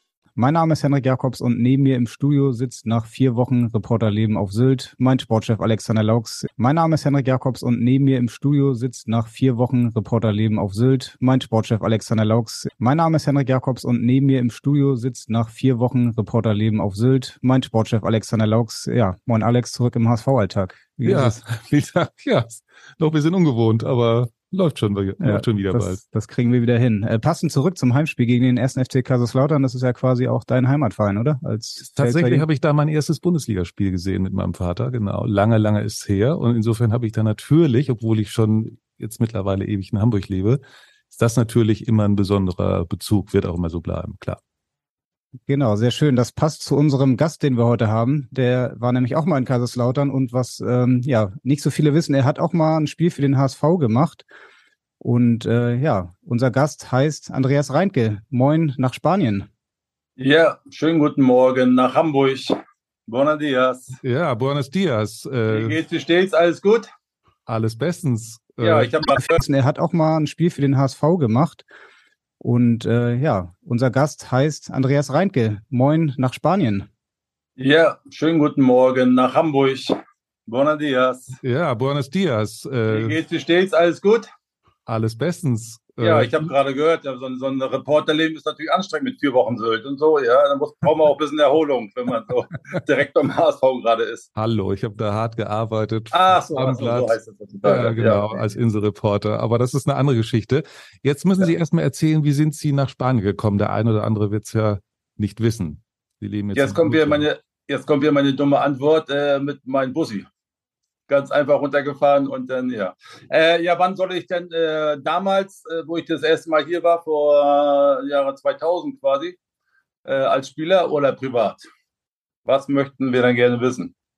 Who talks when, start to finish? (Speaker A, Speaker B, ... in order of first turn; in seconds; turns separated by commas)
Speaker A: 0.4-21.4, Speaker B: 21.0-26.0, Speaker A: 25.2-32.5, Speaker B: 31.8-44.4, Speaker A: 45.5-54.3, Speaker A: 55.0-59.5, Speaker C: 60.2-62.6, Speaker C: 63.1-64.0, Speaker B: 64.0-65.8, Speaker C: 65.5-66.9, Speaker B: 67.5-68.9, Speaker C: 68.6-69.4, Speaker A: 69.2-71.7, Speaker A: 72.4-76.9, Speaker C: 77.6-80.0, Speaker C: 80.5-81.4, Speaker B: 81.4-83.2, Speaker C: 82.9-84.3, Speaker B: 84.9-86.5, Speaker C: 86.0-94.3, Speaker B: 94.4-107.3, Speaker C: 96.1-98.5, Speaker C: 106.5-110.3, Speaker C: 111.1-119.4, Speaker C: 120.0-121.7, Speaker C: 122.5-123.9